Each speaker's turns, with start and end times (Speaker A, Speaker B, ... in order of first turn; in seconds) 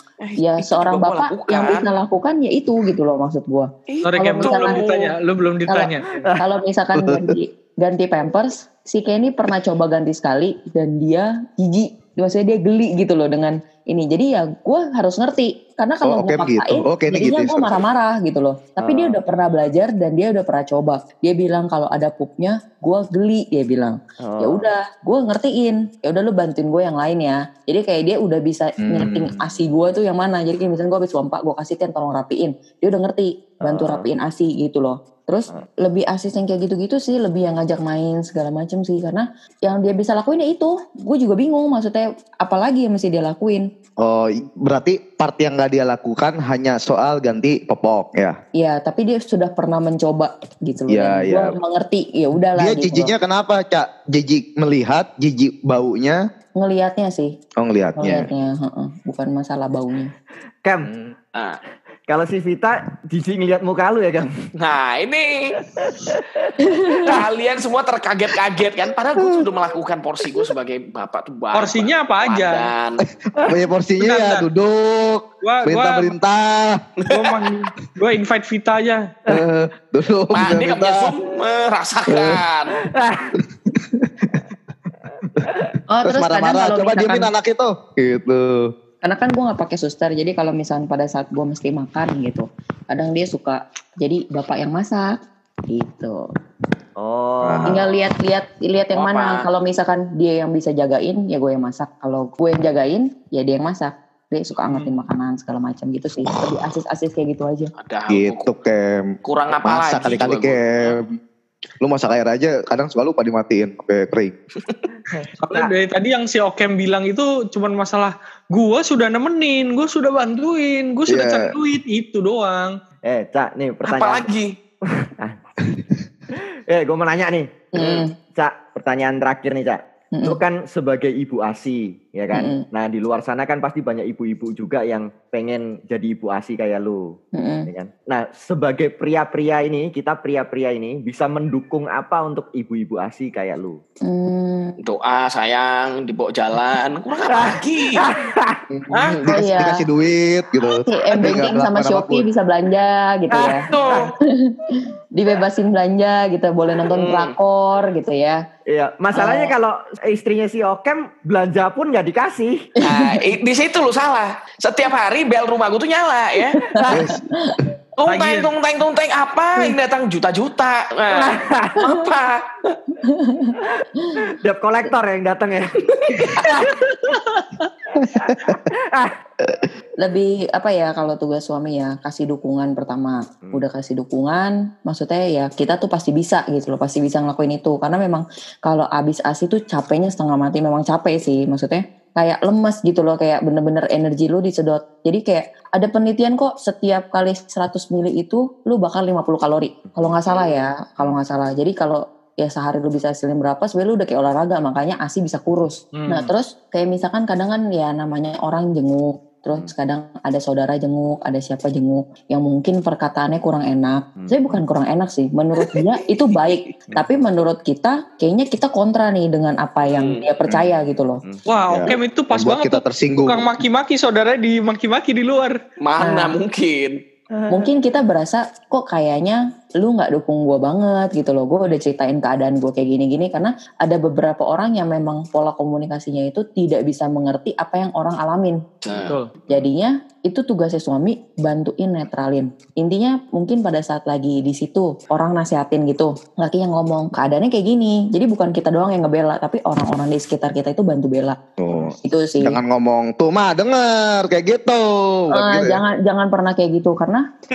Speaker A: 0.2-1.9, 3.9-5.1, 64.6-65.6, 67.0-73.0, 77.0-77.4, 80.3-82.8, 98.9-99.4, 107.8-108.5, 109.2-111.0, 123.8-124.5, 127.8-128.0, 144.8-148.1, 148.9-149.2, 153.4-154.1, 156.9-157.3, 162.8-166.6, 168.0-172.4, 176.2-176.5, 219.9-220.2, 225.8-227.0, 238.8-239.1
Speaker B: 0.4-4.8, 5.7-43.7, 48.6-53.1, 56.6-57.3, 58.0-60.1, 66.7-67.0, 85.9-87.3, 89.0-95.2, 95.7-96.2, 97.7-107.7, 127.7-128.1, 130.1-130.4, 132.3-132.6, 137.3-137.7, 144.1-144.7, 148.7-149.8, 150.7-153.7, 155.1-158.4, 159.1-159.5, 167.4-167.6, 173.0-174.2, 180.0-221.2, 226.0-226.4, 227.5-238.6, 239.5-251.4, 252.0-252.6, 255.3-257.2
Speaker C: 4.0-6.3, 71.5-72.7, 74.0-74.5, 75.4-76.1, 77.1-79.0, 104.7-104.9, 115.4-122.7, 168.1-168.5, 176.9-177.7, 205.9-206.3, 221.4-225.6
Speaker D: 6.1-6.3, 18.8-19.2, 24.2-24.6, 33.6-34.1, 60.6-60.9, 62.1-64.3, 65.8-67.2, 82.8-83.3, 85.4-85.7, 97.0-97.8, 115.2-115.7, 123.1-124.3, 125.0-125.4, 126.7-127.6, 128.3-137.2, 137.7-143.8, 147.3-148.6, 153.7-154.1, 158.7-162.7, 166.8-167.1, 171.1-171.8, 174.3-176.8, 178.0-179.1, 199.8-200.1, 214.2-214.6, 227.3-227.7, 238.9-239.6
Speaker E: 7.0-7.3, 16.0-17.7, 28.8-29.4, 44.0-48.4, 50.9-51.5, 52.6-56.2, 57.6-58.3, 60.8-61.1, 73.5-76.8, 79.3-81.1, 82.1-82.4, 83.6-84.4, 86.0-88.7, 97.4-97.7, 108.1-109.1, 109.6-111.2, 111.8-114.3, 121.1-121.5, 149.2-152.2, 166.9-167.2, 178.0-178.6, 221.7-223.5, 251.6-255.8